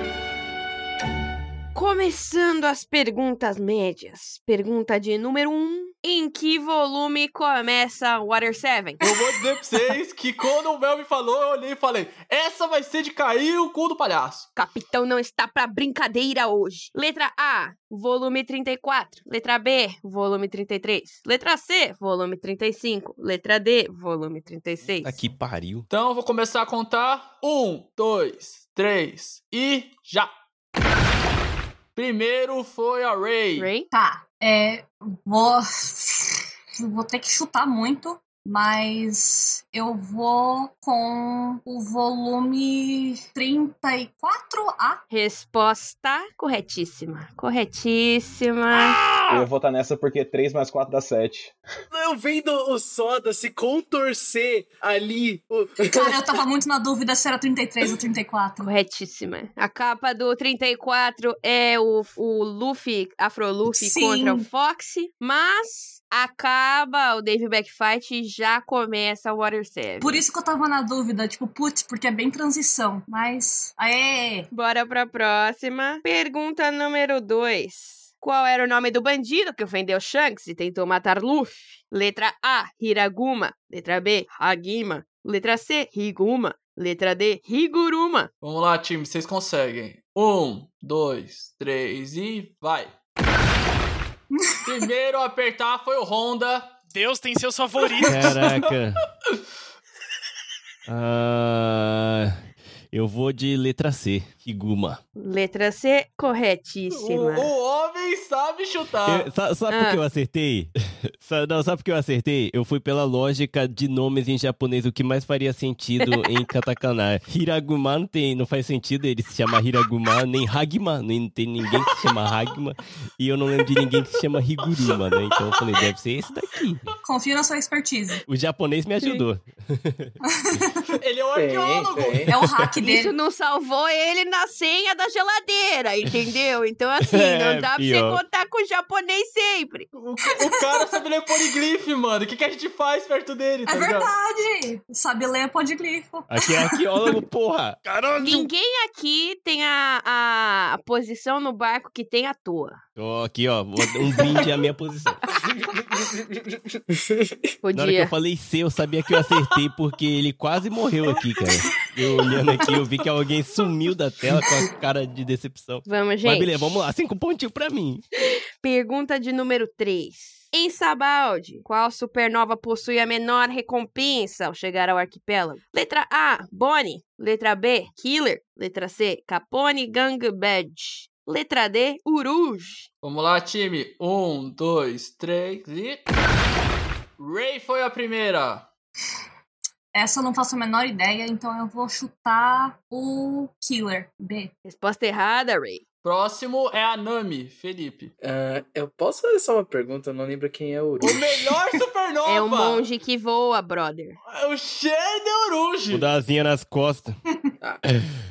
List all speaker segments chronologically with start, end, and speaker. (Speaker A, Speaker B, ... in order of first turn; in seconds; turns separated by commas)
Speaker A: 1.7-9.0, Speaker B: 9.0-14.5, Speaker A: 14.6-25.2, Speaker C: 25.0-25.9, Speaker B: 25.9-30.3, Speaker B: 32.0-33.7, Speaker A: 33.6-33.9, Speaker D: 33.9-45.0, Speaker A: 45.1-49.0, Speaker E: 48.8-49.4, Speaker F: 49.3-51.5, Speaker G: 51.9-56.2, Speaker D: 55.9-58.7, Speaker A: 58.6-70.2, Speaker D: 63.7-64.5, Speaker D: 70.0-74.5, Speaker A: 74.5-88.3, Speaker B: 88.4-92.9, Speaker D: 94.4-94.7, Speaker B: 94.6-96.7, Speaker E: 96.9-98.5, Speaker B: 98.0-98.7, Speaker C: 98.1-99.0, Speaker C: 100.9-105.0, Speaker A: 105.2-107.5, Speaker B: 106.9-109.3, Speaker C: 109.1-126.9, Speaker A: 109.7-110.0, Speaker B: 124.9-125.9, Speaker D: 127.0-128.2, Speaker C: 128.3-130.1, Speaker D: 130.3-130.9, Speaker B: 131.0-132.3, Speaker G: 131.3-132.3, Speaker D: 132.3-133.1, Speaker C: 132.4-132.7, Speaker A: 132.8-139.9, Speaker C: 137.0-138.2, Speaker B: 139.9-144.1, Speaker D: 140.3-141.0, Speaker D: 143.7-147.1, Speaker C: 146.3-148.5, Speaker A: 148.2-152.8, Speaker C: 153.0-155.2, Speaker G: 155.9-157.4, Speaker A: 157.6-158.1, Speaker C: 157.7-168.0, Speaker A: 165.9-166.6, Speaker A: 168.6-182.9, Speaker B: 183.0-186.0, Speaker B: 187.2-188.7, Speaker D: 189.9-194.5, Speaker A: 194.7-195.8, Speaker B: 196.0-198.1, Speaker G: 198.2-201.2, Speaker B: 201.0-202.8, Speaker A: 202.2-204.2, Speaker B: 204.3-206.1, Speaker C: 205.9-207.2, Speaker C: 207.8-208.2